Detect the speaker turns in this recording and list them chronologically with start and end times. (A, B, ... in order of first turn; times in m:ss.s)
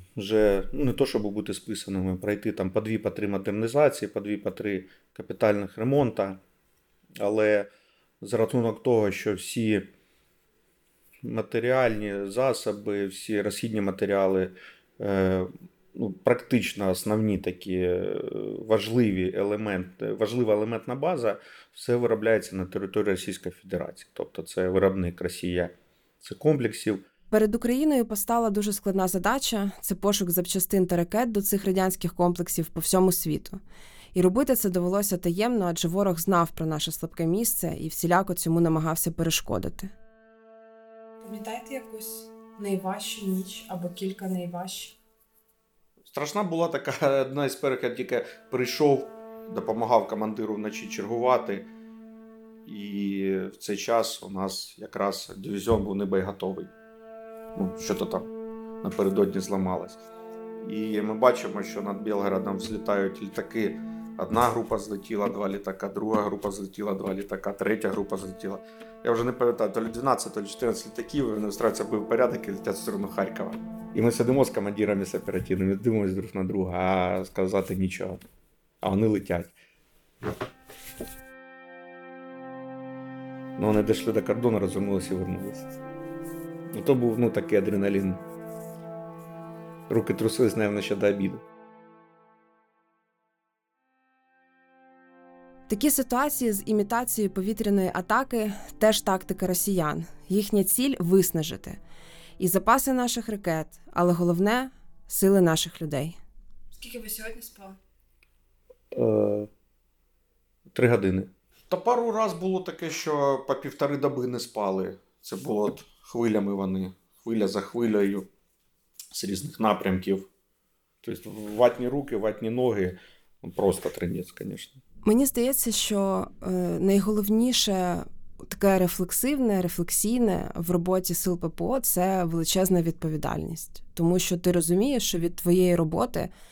0:00.2-0:06.4 A
0:07.2-0:07.7 A
0:08.2-0:09.9 A
0:11.2-0:27.0 A
0:27.3-0:33.6 B
0:34.1-0:39.9 B
0:41.2-0:45.0 B
0:46.1-0:51.7 A
0:52.6-0:56.7 A
0:57.6-0:58.3 A
0:58.8-1:00.0 A
1:00.6-1:18.2 A
1:18.8-1:19.5 A
1:23.6-1:25.6 A
1:26.7-1:28.2 A
1:29.9-1:31.4 A
1:35.7-1:41.8 B
1:42.4-1:46.2 B
1:46.7-1:47.8 B
1:48.9-1:49.5 A
1:50.7-1:58.3 A
1:59.1-2:00.3 A
2:01.0-2:04.8 A
2:05.0-2:16.3 B